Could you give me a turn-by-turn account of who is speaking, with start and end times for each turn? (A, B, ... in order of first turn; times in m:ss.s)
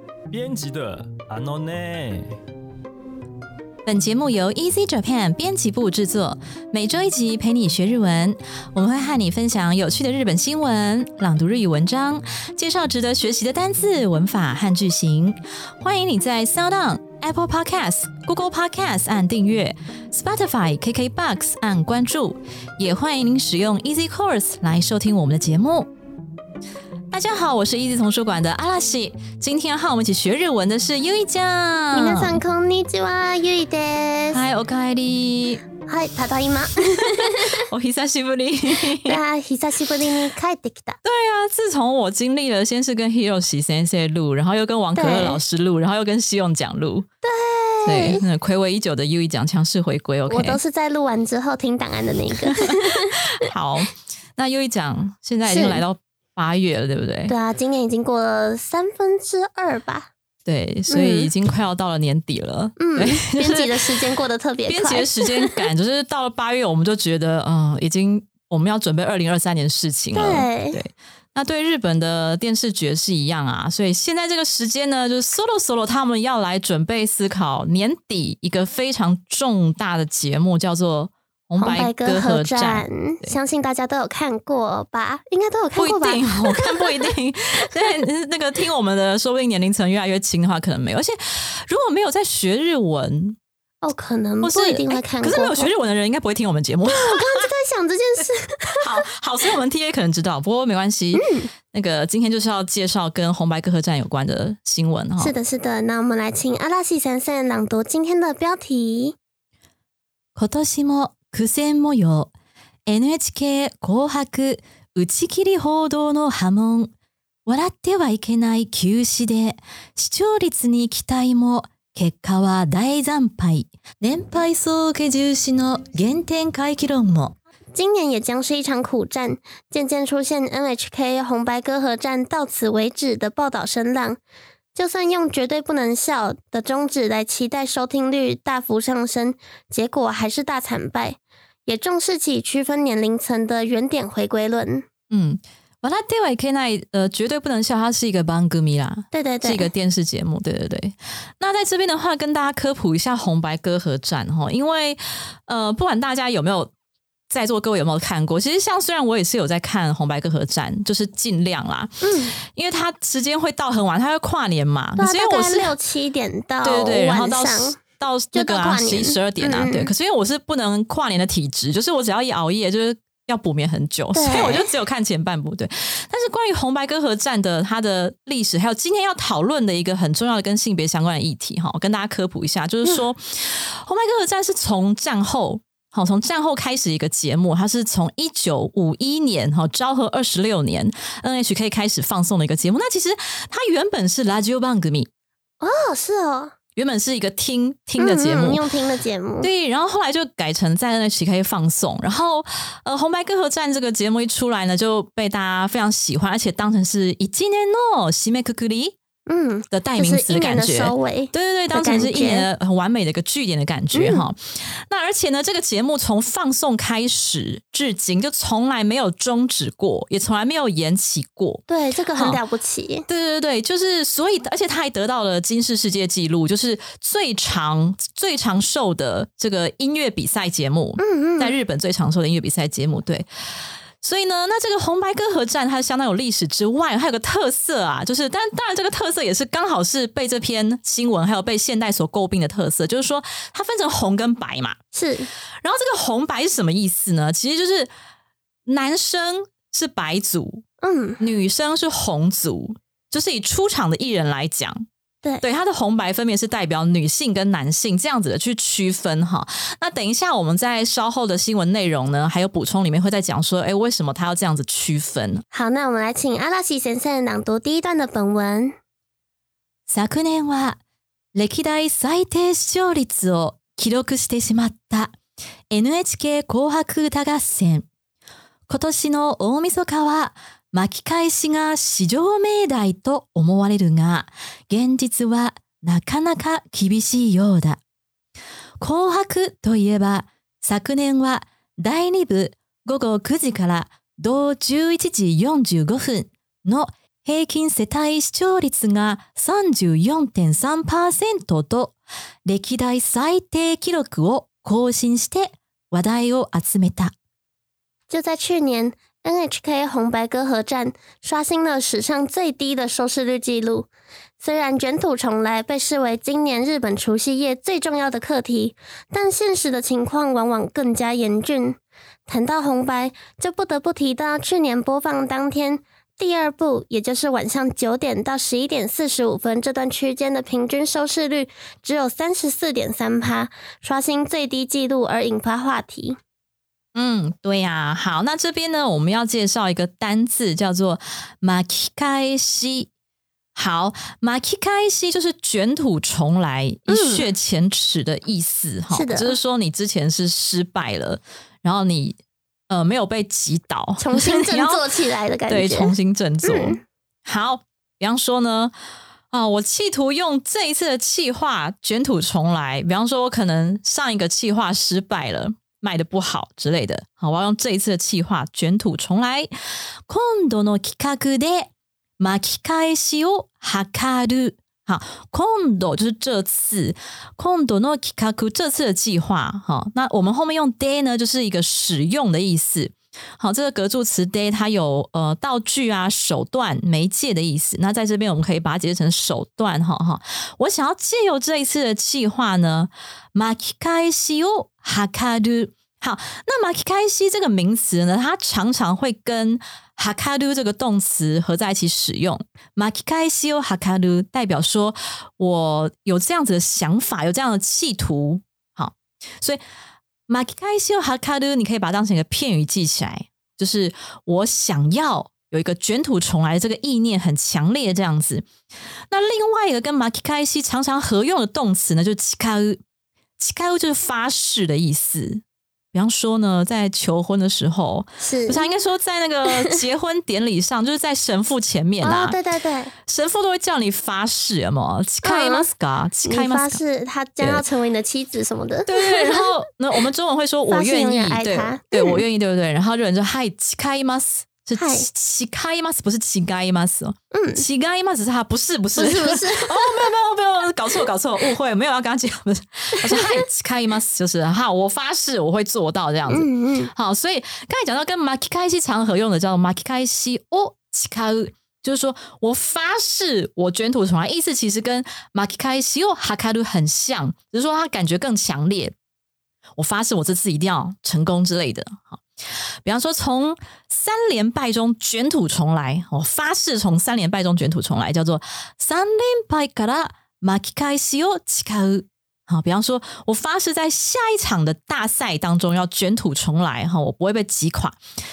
0:00.3-0:02.4 A
0:03.9-0:25.9 B
0:27.1-0:32.4 B
0:31.9-0:34.4 C
0:34.3-0:35.6 B
0:35.9-0:37.6 C
0:37.0-0:39.2 B
0:39.0-0:41.0 C
0:41.0-0:47.1 B
0:45.0-0:45.4 C
0:47.2-0:48.2 C
0:47.9-0:50.6 B
0:50.3-0:53.3 C
0:53.3-0:57.3 B
0:55.5-0:55.8 C
0:57.3-1:00.1 C
1:00.4-1:04.0 B
1:00.9-1:01.3 C
1:02.8-1:05.5 C
1:04.7-1:23.4 B
1:10.1-1:10.8 C
1:21.6-1:27.0 C
1:25.8-1:33.4 B
1:33.8-1:35.7 C
1:34.4-1:37.5 B
1:36.9-1:39.0 C
1:38.8-1:45.3 B
1:41.1-1:41.5 C
1:45.2-1:49.2 C
1:50.4-1:52.3 B
1:52.9-1:56.9 B
1:57.5-2:07.4 B
2:07.7-2:14.2 C
2:14.8-2:24.8 C
2:25.1-2:36.7 B
2:29.1-2:29.7 C
2:37.3-2:45.7 B
2:42.0-2:42.3 C
2:45.0-2:47.8 C
2:46.6-3:15.1 B
2:48.3-2:49.9 C
2:54.1-2:54.7 C
3:15.6-3:16.6 C
3:16.8-3:18.6 B
3:18.0-3:19.5 C
3:19.4-3:29.0 B
3:29.3-3:32.5 C
3:29.7-3:41.6 B
3:33.9-3:34.2 C
3:41.7-3:43.1 C
3:43.1-4:04.8 B
3:51.0-3:51.6 C
4:04.9-4:05.3 C
4:05.6-4:07.9 B
4:08.7-4:10.6 B
4:10.8-4:11.2 C
4:11.2-4:14.9 B
4:15.4-4:25.4 B
4:25.5-4:28.8 C
4:29.9-4:30.8 B
4:31.3-4:35.2 B
4:35.7-4:37.9 B
4:38.7-4:47.8 B
4:48.8-5:07.1 B
5:08.1-5:13.9 C
5:14.4-5:36.2 C
5:37.0-5:42.9 B
5:43.6-5:52.2 B
5:46.9-5:47.3 C
5:48.9-5:49.3 C
5:52.7-5:54.8 B
5:54.0-5:56.8 C
5:55.5-5:58.7 B
5:59.3-6:09.5 B
6:10.1-6:49.6 B
6:50.3-6:58.5 B
6:59.1-7:02.8 B
7:03.4-7:12.4 B
7:08.2-7:08.6 C
7:09.5-7:09.8 C
7:12.0-7:12.9 C
7:13.1-7:16.8 B
7:15.2-7:15.7 C
7:16.3-7:19.5 C
7:18.9-7:49.0 B
7:20.7-7:22.2 C
7:24.8-7:25.1 C
7:27.3-7:27.6 C
7:29.0-7:30.1 C
7:33.0-7:33.4 C
7:36.3-7:36.9 C
7:49.8-7:52.2 B
7:52.8-8:08.0 B